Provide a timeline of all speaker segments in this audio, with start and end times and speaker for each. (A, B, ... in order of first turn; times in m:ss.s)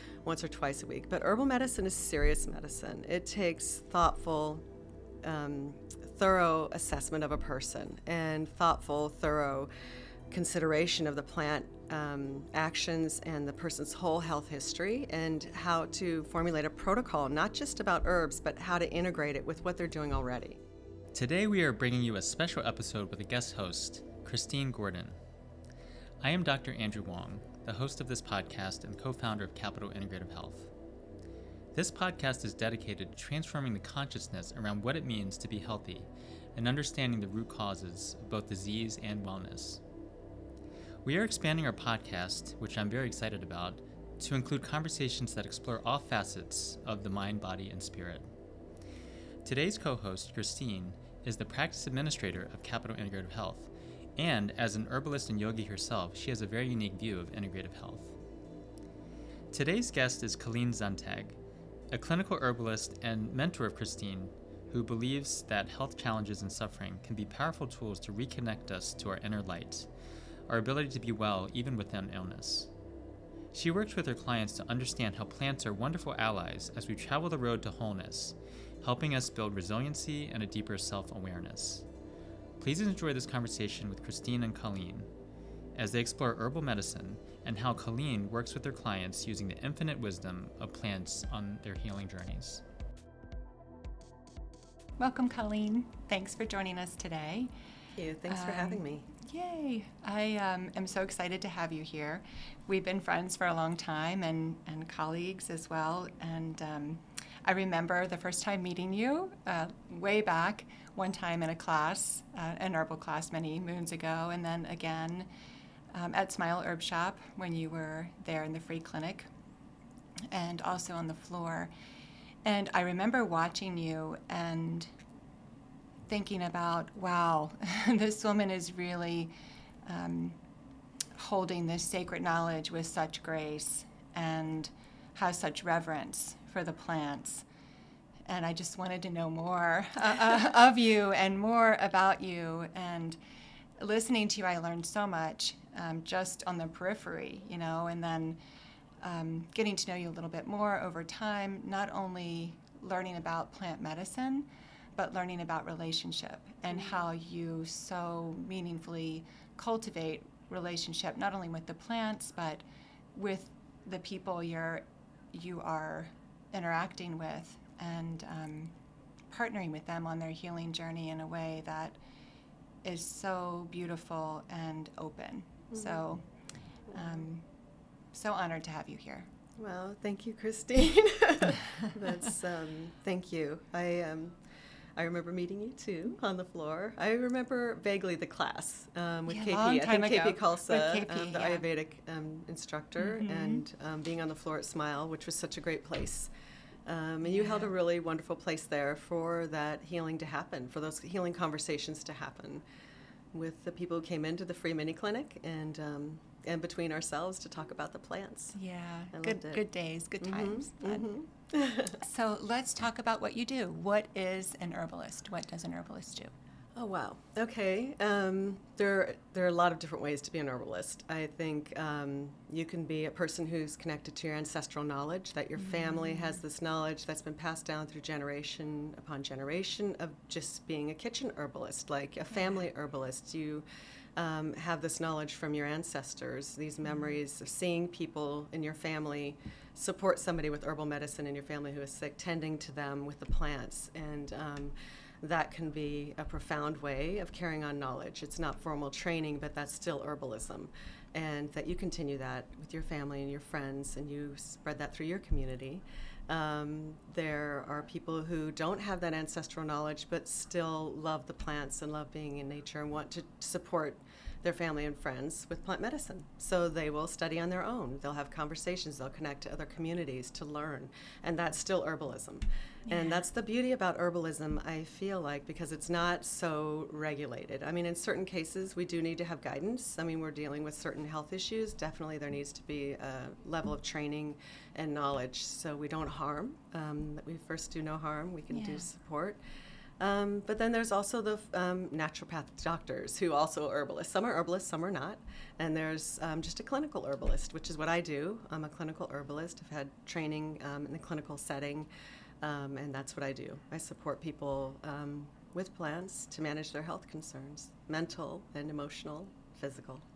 0:00.2-0:04.6 A
0:05.2-0:09.7 A
0:10.3-0:20.6 A
0:21.1-0:25.2 B
0:26.2-0:30.7 B
0:31.7-0:39.8 B
0:41.0-0:48.3 B
0:49.4-0:58.2 B
0:59.5-1:01.4 B
1:01.9-1:09.9 B
1:10.5-1:12.7 B
1:13.5-1:21.9 B
1:22.6-1:25.1 B
1:25.8-1:32.6 B
1:35.0-1:37.5 C
1:38.0-1:39.1 A
1:38.3-1:55.3 C
1:55.9-1:59.3 C
2:00.3-2:01.7 C
2:02.4-2:04.9 C
2:06.1-2:09.3 C
2:09.9-2:10.4 C
2:11.2-2:17.4 C
2:18.3-2:23.2 C
2:23.8-2:28.4 C
2:29.0-2:48.7 C
2:49.3-2:52.0 C
2:52.8-2:56.2 C
2:55.7-2:56.0 A
2:56.9-2:57.5 C
2:58.1-2:59.3 C
2:59.6-3:04.4 A
3:05.0-3:16.3 A
3:09.3-3:11.6 C
3:13.0-3:13.6 C
3:16.9-3:22.6 A
3:17.3-3:17.7 C
3:23.3-3:28.6 A
3:28.6-3:31.0 C
3:29.1-3:29.6 A
3:30.2-3:32.0 A
3:32.0-3:36.3 C
3:36.8-3:53.6 A
3:45.6-3:46.4 C
3:54.2-4:49.4 A
4:32.9-4:33.2 C
4:48.5-4:48.9 C
4:50.0-5:01.9 A
5:02.4-5:10.0 A